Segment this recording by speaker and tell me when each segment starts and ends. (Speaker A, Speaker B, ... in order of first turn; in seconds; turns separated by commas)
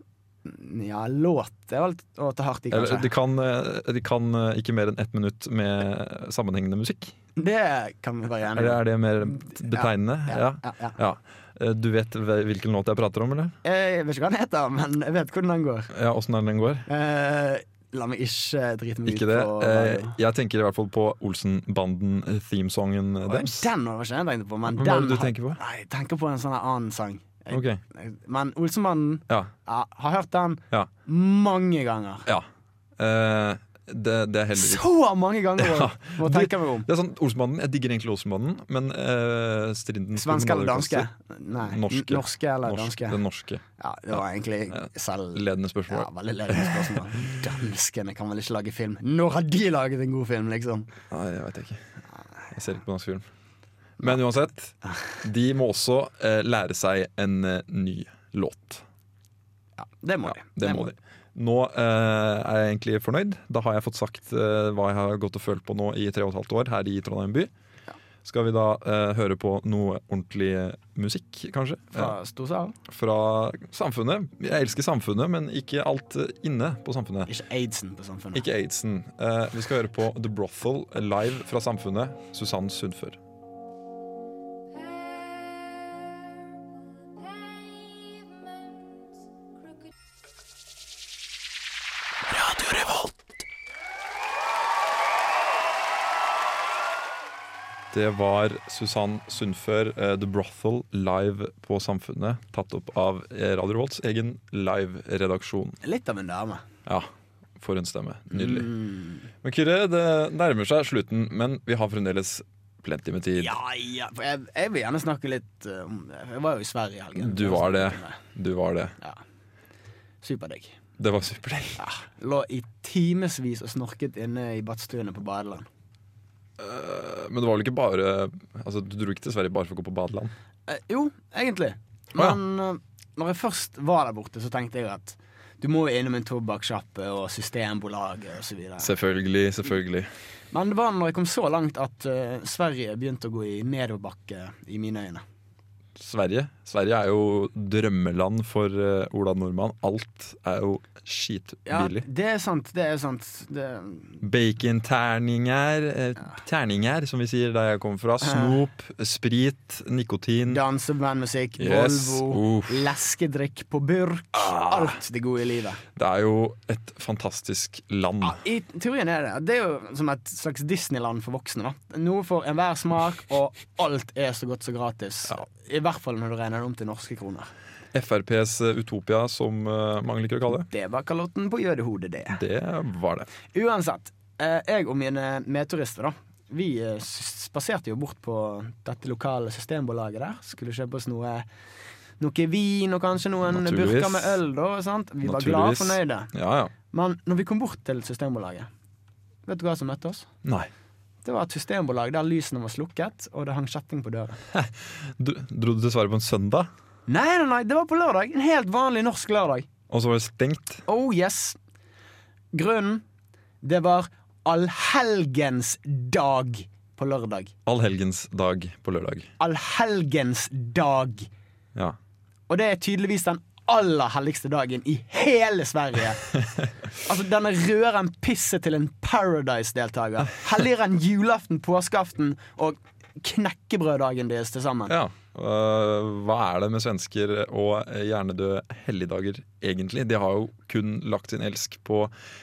Speaker A: 0.5-3.1, Speaker B: 2.7-7.1, Speaker A: 7.4-8.8, Speaker B: 8.5-13.5, Speaker A: 9.4-11.0, Speaker A: 13.6-15.9, Speaker B: 15.9-16.9, Speaker A: 16.9-20.2, Speaker B: 19.1-23.7, Speaker A: 23.3-32.3, Speaker B: 24.7-25.6, Speaker B: 27.5-27.8, Speaker B: 33.0-34.8, Speaker A: 34.5-36.9, Speaker B: 35.6-43.6, Speaker A: 40.2-43.2, Speaker A: 43.8-50.9, Speaker B: 44.7-46.8, Speaker B: 51.1-51.8, Speaker B: 52.5-53.2, Speaker B: 54.0-58.8, Speaker A: 59.8-60.9, Speaker B: 60.3-67.5, Speaker B: 68.2-72.2, Speaker A: 71.9-72.8, Speaker B: 72.9-77.3, Speaker A: 77.3-78.5, Speaker B: 78.3-83.2, Speaker A: 92.3-93.1, Speaker B: 97.9-105.8, Speaker A: 105.8-106.7, Speaker B: 106.9-108.7, Speaker A: 108.3-109.3, Speaker B: 109.4-113.6, Speaker A: 113.4-118.2, Speaker B: 117.2-119.0, Speaker A: 120.2-120.8, Speaker B: 121.0-121.9, Speaker A: 121.8-125.7, Speaker B: 126.6-130.3, Speaker A: 130.7-138.9, Speaker B: 138.8-140.1, Speaker A: 140.5-145.2, Speaker B: 146.0-152.1, Speaker A: 151.7-154.2, Speaker B: 154.2-160.6, Speaker A: 160.5-165.8, Speaker B: 161.6-162.9, Speaker B: 164.5-164.9, Speaker B: 166.0-168.4, Speaker A: 168.2-177.5, Speaker B: 177.9-180.7, Speaker A: 180.7-182.4, Speaker B: 182.3-183.3, Speaker A: 183.5-191.5, Speaker A: 192.2-196.3, Speaker B: 193.5-194.4, Speaker B: 195.2-196.7, Speaker A: 196.9-198.7, Speaker A: 199.5-200.3, Speaker B: 200.4-200.7, Speaker A: 201.2-204.4, Speaker B: 204.5-206.7, Speaker A: 207.1-209.7, Speaker B: 209.9-210.8, Speaker A: 210.9-211.6, Speaker A: 212.5-213.0, Speaker A: 213.6-217.5, Speaker B: 217.7-219.3, Speaker A: 219.4-221.3, Speaker A: 222.5-226.3, Speaker A: 226.9-235.0, Speaker B: 234.9-242.1